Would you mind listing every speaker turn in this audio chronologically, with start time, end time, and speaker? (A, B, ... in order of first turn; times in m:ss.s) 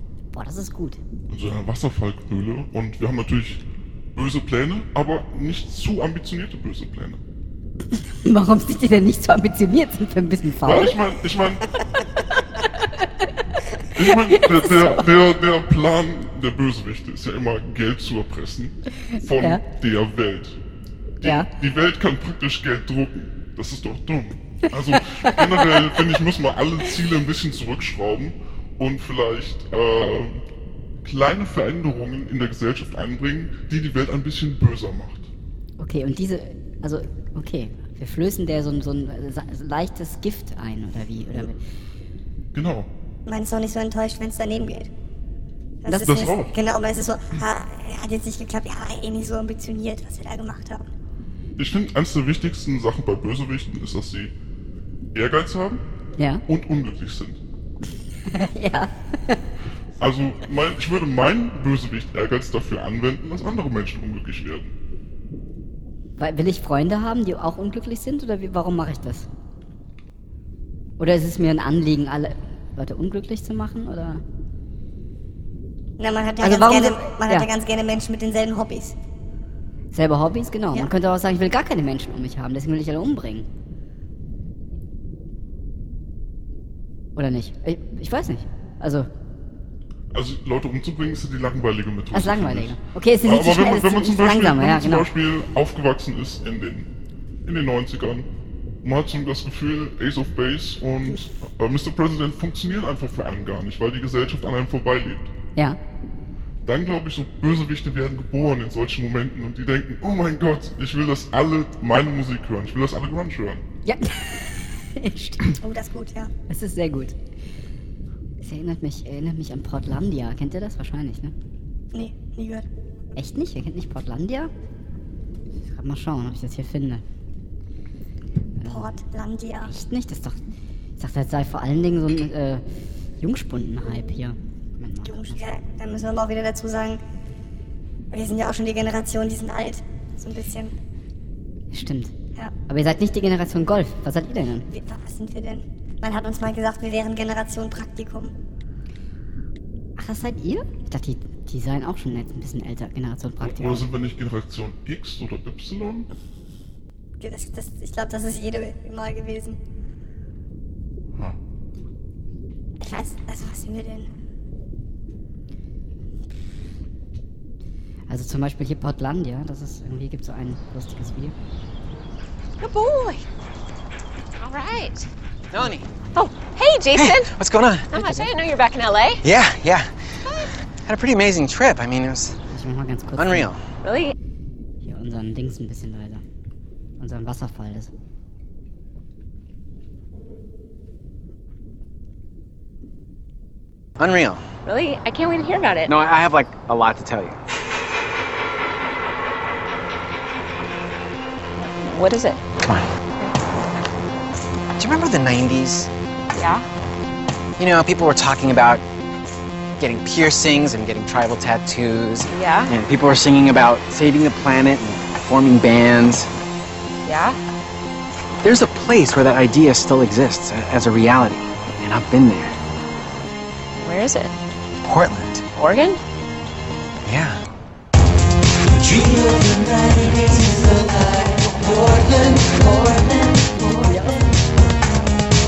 0:00.3-0:01.0 A
0:01.3-0:03.6 B
0:04.2-0:07.2 B
0:08.2-0:11.0 A
0:10.6-0:11.7 B
0:13.9-0:20.6 B
0:14.1-0:14.9 A
0:19.4-0:19.6 A
0:21.2-0:30.4 B
0:21.2-0:21.5 A
0:24.9-0:26.0 A
0:31.0-0:35.3 B
0:35.8-0:41.6 A
0:42.5-0:42.9 B
0:43.3-0:44.9 C
0:45.8-0:50.9 C
0:45.9-0:46.6 B
0:51.6-0:54.3 B
0:55.1-0:55.8 B
0:56.2-0:56.4 A
0:56.5-0:57.4 B
0:58.3-0:59.4 A
1:00.0-1:04.8 B
1:06.2-1:09.3 A
1:11.0-1:14.2 A
1:16.0-1:19.0 C
1:16.4-1:17.5 A
1:19.9-1:23.5 A
1:27.2-1:29.1 A
1:30.1-1:36.9 B
1:32.1-1:35.1 A
1:37.4-1:38.3 B
1:38.8-1:45.3 B
1:46.6-1:53.6 B
1:53.8-1:55.6 A
1:55.6-1:56.3 C
1:56.5-1:57.2 A
1:58.4-2:01.3 A
2:01.9-2:02.7 C
2:03.2-2:04.5 A
2:05.6-2:07.0 A
2:08.6-2:08.9 A
2:08.6-2:09.7 C
2:09.7-2:10.4 A
2:11.0-2:12.6 A
2:13.2-2:15.4 A
2:15.0-2:17.0 C
2:18.1-2:20.8 C
2:21.7-2:22.1 A
2:22.7-2:24.7 A
2:24.7-2:28.3 C
2:30.0-2:33.9 A
2:33.4-2:36.1 B
2:37.2-2:39.6 C
2:42.8-2:44.1 C
2:48.1-2:51.3 A
2:52.6-2:53.2 D
2:54.4-2:55.1 D
2:55.5-2:55.9 E
2:56.2-2:57.3 D
2:56.9-2:58.0 E
2:57.9-2:59.2 D
2:59.2-2:59.9 E
3:00.8-3:02.4 E
3:02.5-3:03.5 A
3:03.2-3:03.6 E
3:03.8-3:04.1 D
3:04.8-3:06.2 A
3:07.0-3:07.9 A
3:14.0-3:14.4 E
3:14.6-3:15.9 D
3:15.9-3:17.4 E
3:21.7-3:22.4 D
3:22.6-3:22.9 E
3:24.8-3:25.9 E
3:26.3-3:26.6 D
3:27.6-3:28.8 E
3:29.8-3:36.3 E
3:32.3-3:32.7 D
3:37.1-3:37.4 D
3:38.4-3:42.6 E
3:43.8-3:44.4 D
3:44.8-3:45.5 E
3:45.5-3:46.0 D
3:47.0-3:47.4 E
3:48.8-3:54.3 D
3:53.8-3:54.2 A